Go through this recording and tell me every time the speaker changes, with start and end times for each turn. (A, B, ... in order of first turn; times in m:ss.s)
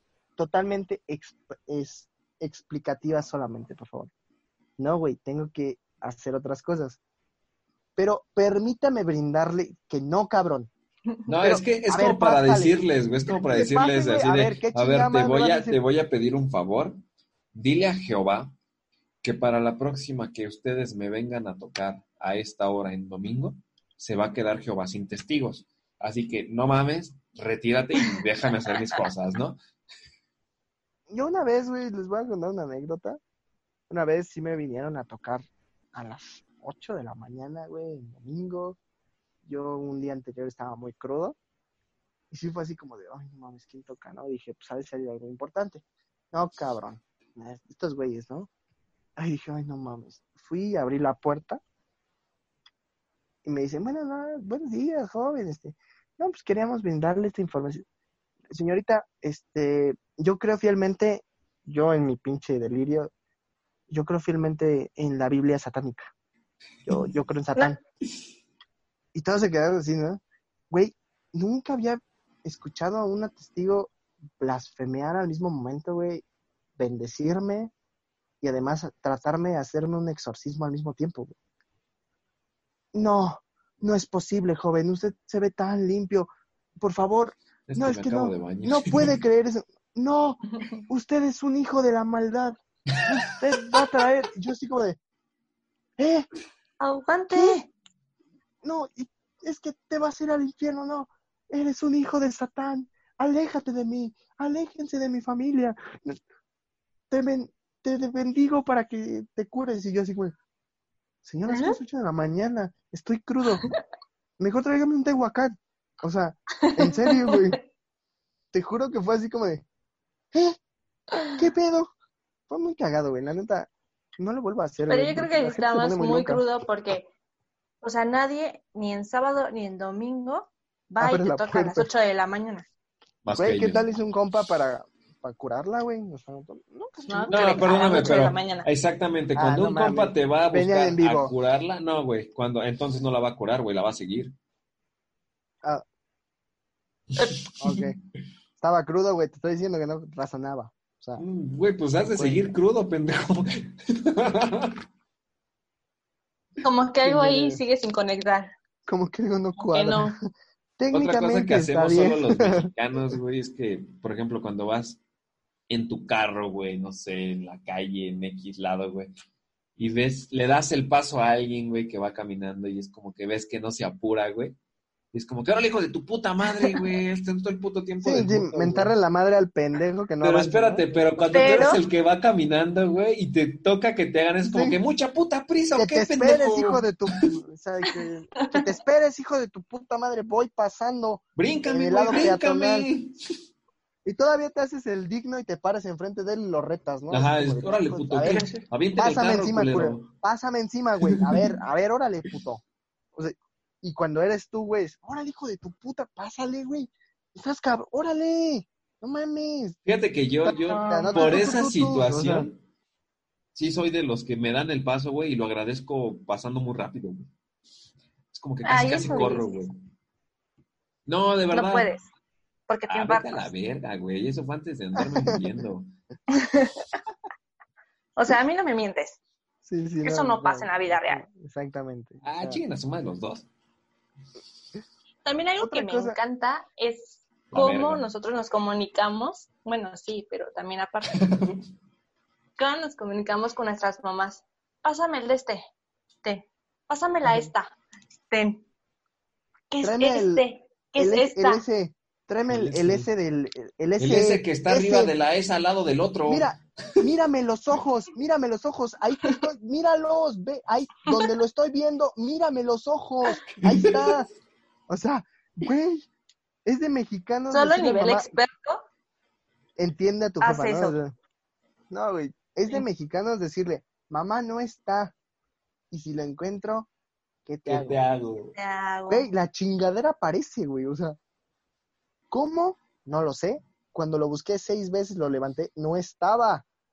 0:00.4-0:04.1 A
0:04.8-0:07.0 A
0:08.0-0:10.7 A
0:11.3-0:17.0 B
0:11.4-0:12.8 A
0:13.5-0:15.8 A
0:17.5-0:18.5 B
0:19.2-0:29.6 B
0:31.1-0:33.2 A
0:33.9-0:38.8 A
0:39.4-0:41.4 A
0:42.3-0:48.5 A
0:49.2-0:51.6 A
0:53.4-0:57.8 A
0:58.5-1:03.1 A
1:03.9-1:06.1 A
1:06.9-1:07.8 A
1:09.1-1:16.2 A
1:16.8-1:17.7 A
1:18.4-1:21.3 A
1:22.9-1:26.3 A
1:26.8-1:35.0 A
1:27.7-1:29.2 B
1:32.9-1:33.8 B
1:36.0-1:36.2 A
1:36.8-1:37.7 C
1:37.3-1:37.6 A
1:38.6-1:46.2 A
1:47.1-1:50.3 A
1:51.2-1:53.7 A
1:51.5-1:51.8 C
1:54.4-1:57.6 A
1:56.6-1:57.5 C
1:58.5-1:59.6 A
2:01.3-2:01.9 A
2:02.5-2:06.4 A
2:04.9-2:07.1 C
2:07.8-2:12.7 C
2:11.0-2:11.9 A
2:13.2-2:13.8 B
2:13.4-2:18.1 A
2:17.1-2:18.7 C
2:17.3-2:24.3 B
2:19.4-2:21.3 A
2:27.2-2:27.9 B
2:27.6-2:28.0 A
2:28.6-2:31.2 A
2:31.2-2:34.7 B
2:32.0-2:32.5 A
2:36.6-2:38.5 C
2:37.0-2:37.6 A
2:38.9-2:40.2 A
2:39.6-2:40.1 C
2:40.8-2:42.7 A
2:40.9-2:45.0 B
2:45.7-2:49.1 B
2:49.8-2:54.6 B
2:55.1-2:58.9 B
2:58.0-3:01.6 A
3:00.2-3:07.3 B
3:01.3-3:01.8 C
3:04.4-3:04.8 A
3:05.8-3:12.9 A
3:11.4-3:13.2 B
3:14.0-3:22.6 A
3:17.1-3:20.1 B
3:18.2-3:18.6 C
3:21.1-3:21.6 B
3:23.1-3:29.8 A
3:29.9-3:32.6 B
3:30.4-3:32.5 A
3:30.6-3:31.6 C
3:33.6-3:37.3 B
3:38.3-3:39.8 B
3:38.6-3:39.7 C
3:39.0-3:39.4 A
3:41.0-3:41.9 B
3:41.5-3:42.0 C
3:42.7-3:43.5 C
3:42.9-3:45.9 B
3:45.0-3:45.4 A
3:46.3-3:46.8 C
3:48.2-3:49.2 C
3:49.6-3:52.6 A
3:50.0-3:51.2 C
3:52.2-3:53.4 B
3:55.2-4:01.2 C
3:55.6-3:56.2 A
3:57.5-3:58.0 B
4:01.2-4:01.6 B
4:02.6-4:05.6 C
4:06.2-4:07.7 C
4:07.2-4:07.5 A
4:08.3-4:08.6 C
4:09.7-4:11.6 C
4:09.8-4:10.4 A
4:11.0-4:15.1 A
4:12.5-4:13.1 B
4:14.0-4:17.0 B
4:16.3-4:24.2 A
4:23.5-4:24.2 B
4:24.9-4:26.1 A
4:26.6-4:28.3 A
4:27.5-4:28.8 C
4:29.8-4:31.1 A
4:30.4-4:30.9 C
4:31.9-4:35.1 A
4:35.9-4:36.9 A
4:37.4-4:38.0 A
4:37.6-4:38.5 B
4:38.5-4:39.3 C
4:39.1-4:41.2 A
4:42.3-4:46.6 A